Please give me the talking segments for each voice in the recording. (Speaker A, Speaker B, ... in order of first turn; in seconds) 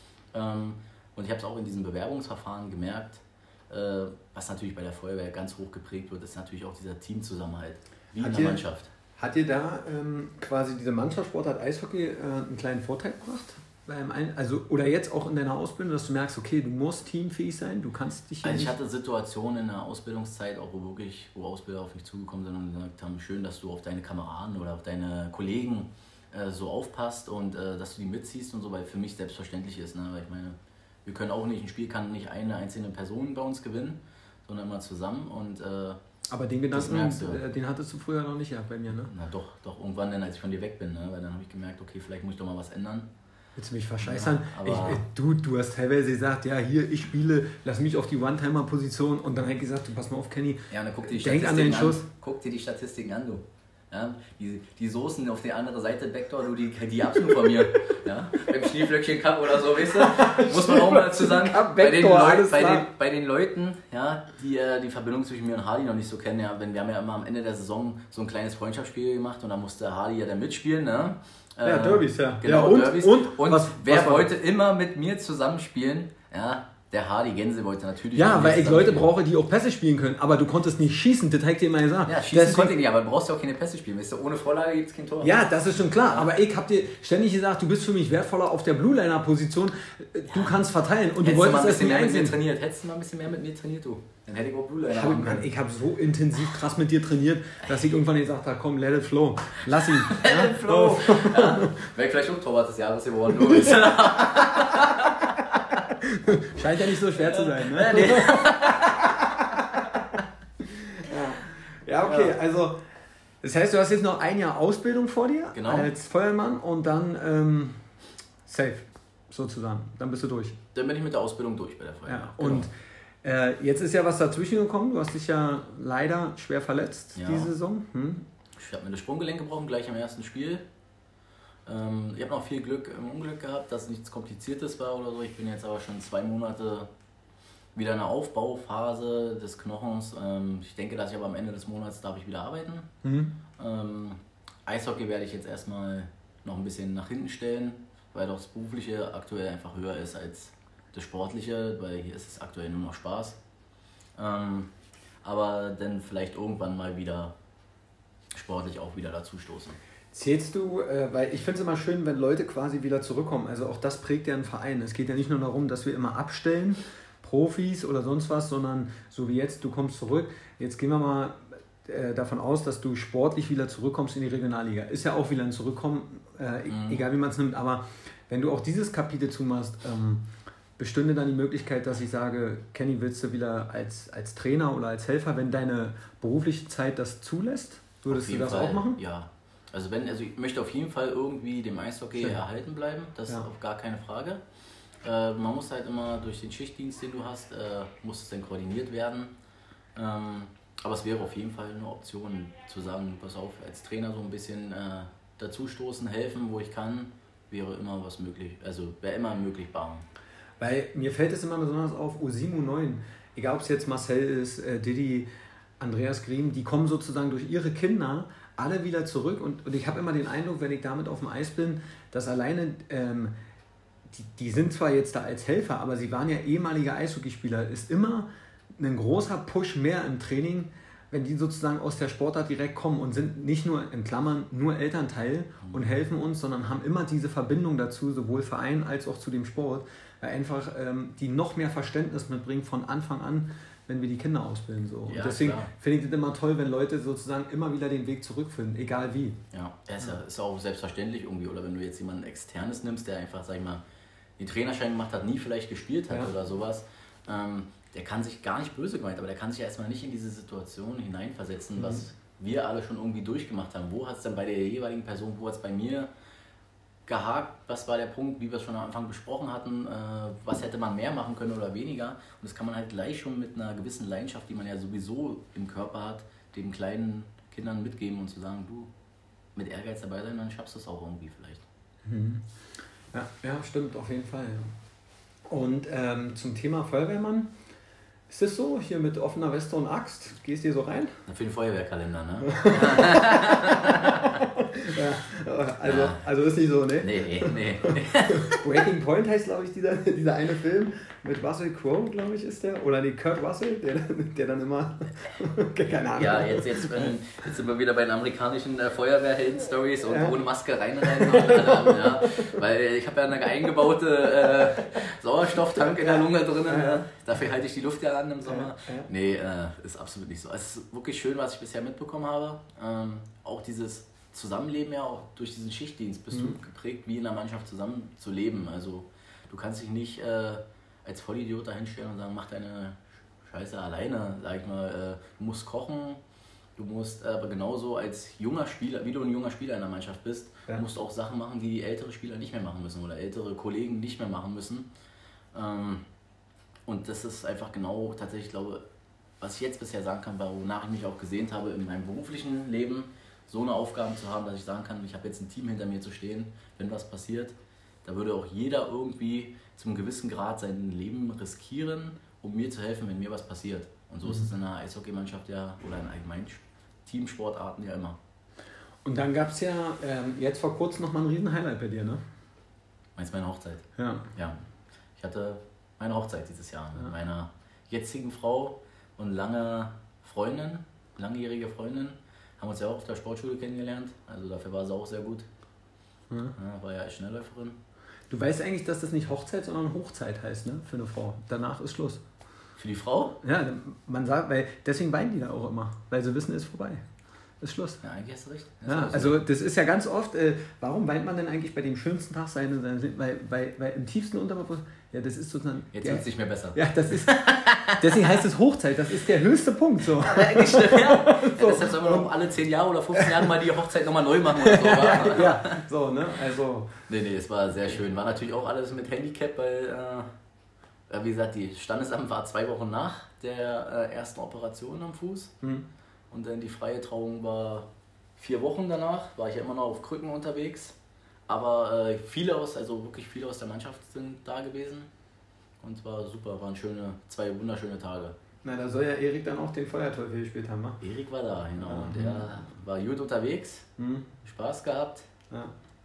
Speaker A: 0.3-8.9, 18.4-36.0, 36.7-37.4, 38.9-43.1, 44.0-45.0, 50.7-79.1, 82.0-85.4, 86.0-86.3, 90.3-90.6, 91.2-95.5, 99.7-105.8, 107.0-109.1, 112.0-112.3, 115.5-115.9, 120.7-122.7, 127.1-127.5, 128.6-130.7, 131.7-136.9, 137.7-142.9, 143.6-153.4, 154.2-157.3, 158.3-159.8, 176.7-177.0, 188.1-194.4, 195.0-199.3, 199.9-210.1, 235.6-235.9, 245.1-245.7, 249.5-253.8, 254.4-266.1, 267.1-278.9, 279.5-281.6, 291.2-294.4, 295.8-296.2, 297.0-298.6, 306.1-336.2, 336.8-344.9, 345.5-346.1, 346.9-348.8, 349.4-368.2, 373.1-374.6, 375.2-385.5, 386.6-387.8, 392.8-393.4, 398.0-399.4, 405.9-408.1, 410.2-415.8, 417.1-420.3, 421.1-425.5, 426.3-431.0, 431.5-435.1, 435.8-438.4, 441.0-443.9, 444.4-445.3
Speaker B: 8.2-8.6, 9.2-18.7, 36.3-39.1, 43.5-52.1, 60.0-62.9, 71.6-74.3, 78.1-82.8, 85.2-92.4, 94.9-101.8, 106.0-110.0, 110.9-112.8, 113.4-117.9, 118.5-120.6, 122.1-122.7, 123.2-128.3, 143.0-143.3, 160.1-189.0, 210.6-223.3, 224.1-249.4, 261.8-262.0, 282.0-282.6, 283.1-284.7, 285.5-287.5, 288.3-291.2, 292.5-293.9, 294.8-307.1, 310.1-310.3, 311.0-312.6, 315.8-317.0, 318.5-319.1, 326.3-326.6, 369.0-372.2, 374.0-374.3, 386.3-386.6, 388.3-392.2, 393.4-397.0, 397.6-398.0, 398.9-412.3, 414.6-417.0, 438.6-441.0, 441.8-442.5, 444.0-444.3